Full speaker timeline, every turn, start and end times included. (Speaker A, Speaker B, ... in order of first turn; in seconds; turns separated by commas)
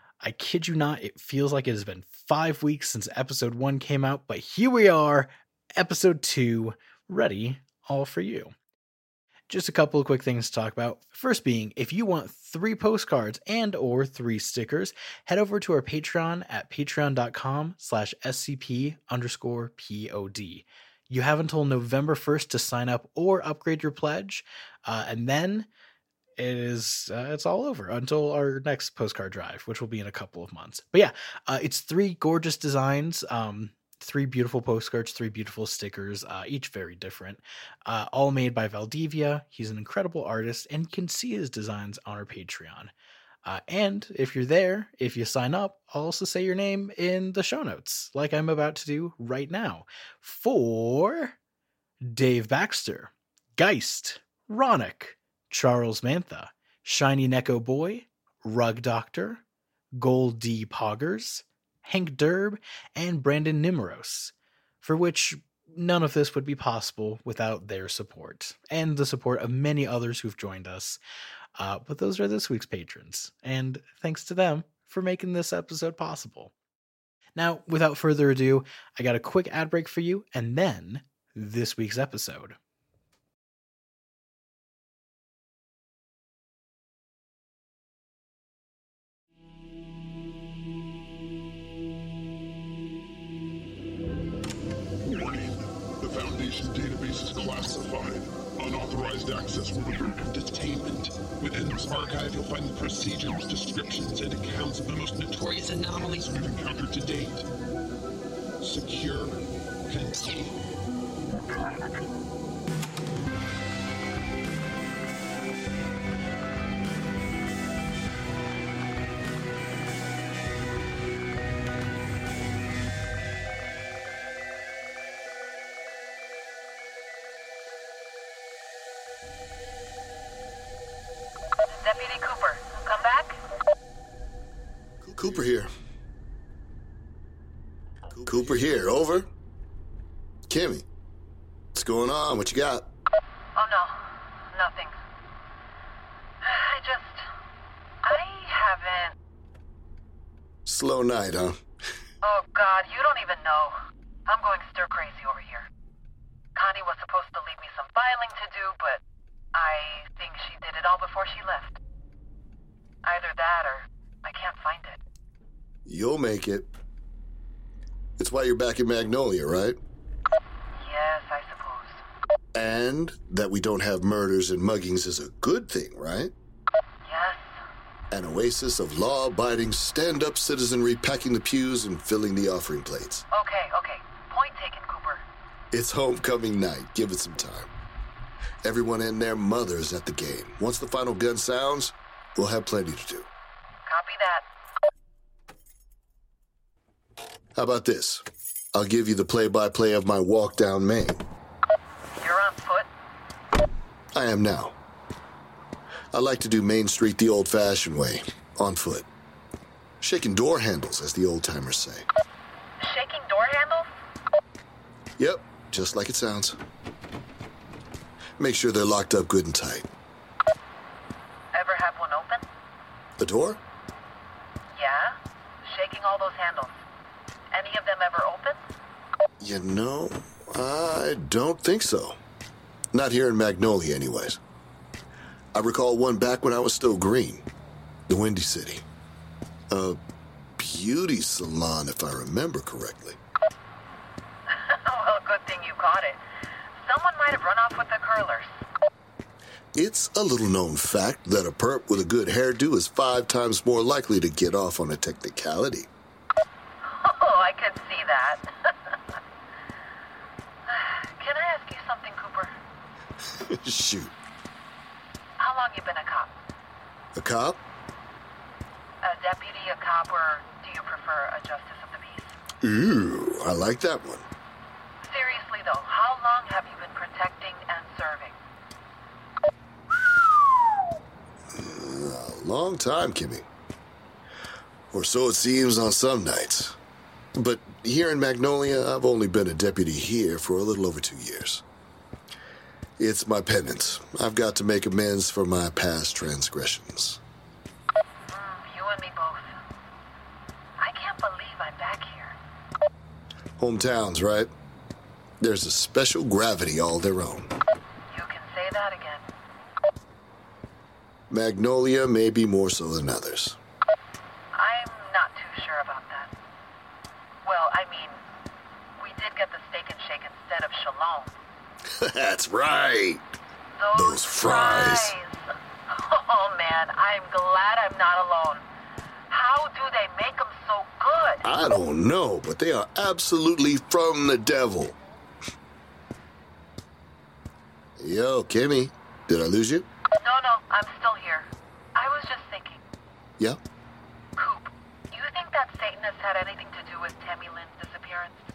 Speaker A: 0.2-8.5, Speaker A: 9.5-25.7, Speaker A: 26.4-42.9, Speaker A: 43.5-51.4, Speaker A: 52.0-59.4, Speaker A: 60.0-71.0, Speaker A: 71.6-76.5, Speaker A: 77.4-82.6, Speaker B: 95.0-107.5, Speaker B: 108.6-110.5, Speaker C: 131.7-133.4, Speaker D: 135.0-135.7, Speaker D: 138.2-139.3, Speaker D: 140.5-140.8, Speaker D: 141.7-142.9, Speaker C: 143.5-145.0, Speaker C: 146.4-147.3, Speaker C: 148.0-149.1, Speaker D: 150.7-151.6, Speaker C: 152.2-155.7, Speaker C: 156.5-159.0, Speaker C: 159.5-161.8, Speaker C: 163.0-165.0, Speaker D: 165.8-166.7, Speaker D: 168.2-169.8, Speaker C: 170.8-172.0, Speaker D: 172.5-176.3, Speaker C: 177.0-177.6, Speaker D: 178.1-183.2, Speaker C: 183.3-185.2, Speaker D: 185.7-187.7, Speaker D: 188.6-193.3, Speaker C: 193.8-194.4, Speaker D: 197.6-198.2, Speaker D: 198.7-201.2, Speaker C: 202.1-202.9, Speaker D: 204.1-204.8, Speaker D: 206.1-209.1, Speaker D: 210.0-212.1, Speaker C: 212.8-213.9, Speaker D: 215.2-216.6, Speaker D: 218.4-219.9, Speaker C: 221.5-222.4, Speaker D: 223.2-223.6, Speaker C: 224.7-226.8, Speaker C: 227.5-228.6, Speaker D: 229.4-232.2, Speaker D: 232.9-234.4, Speaker D: 235.5-237.4, Speaker D: 238.1-238.8, Speaker D: 239.7-240.0, Speaker D: 240.6-243.2, Speaker C: 244.5-246.2, Speaker C: 246.8-248.5, Speaker D: 249.8-255.9, Speaker C: 256.8-259.0, Speaker C: 260.7-262.5, Speaker D: 263.3-264.1, Speaker C: 265.4-266.3, Speaker D: 267.1-267.6, Speaker C: 269.0-272.3, Speaker D: 272.6-274.3, Speaker C: 275.0-278.4, Speaker D: 281.5-283.4, Speaker D: 284.9-286.8, Speaker D: 287.4-291.6, Speaker D: 293.0-297.2, Speaker C: 298.3-299.5, Speaker C: 300.8-302.4, Speaker D: 303.6-304.5, Speaker D: 305.4-307.5, Speaker C: 308.1-309.2, Speaker D: 311.3-313.6, Speaker C: 314.5-316.3, Speaker C: 317.4-318.2, Speaker C: 319.0-321.3, Speaker D: 321.9-323.2, Speaker C: 323.8-328.6, Speaker D: 323.9-325.1, Speaker C: 329.3-331.4, Speaker D: 331.4-335.0, Speaker D: 338.0-339.9, Speaker C: 340.2-342.8, Speaker C: 344.4-348.4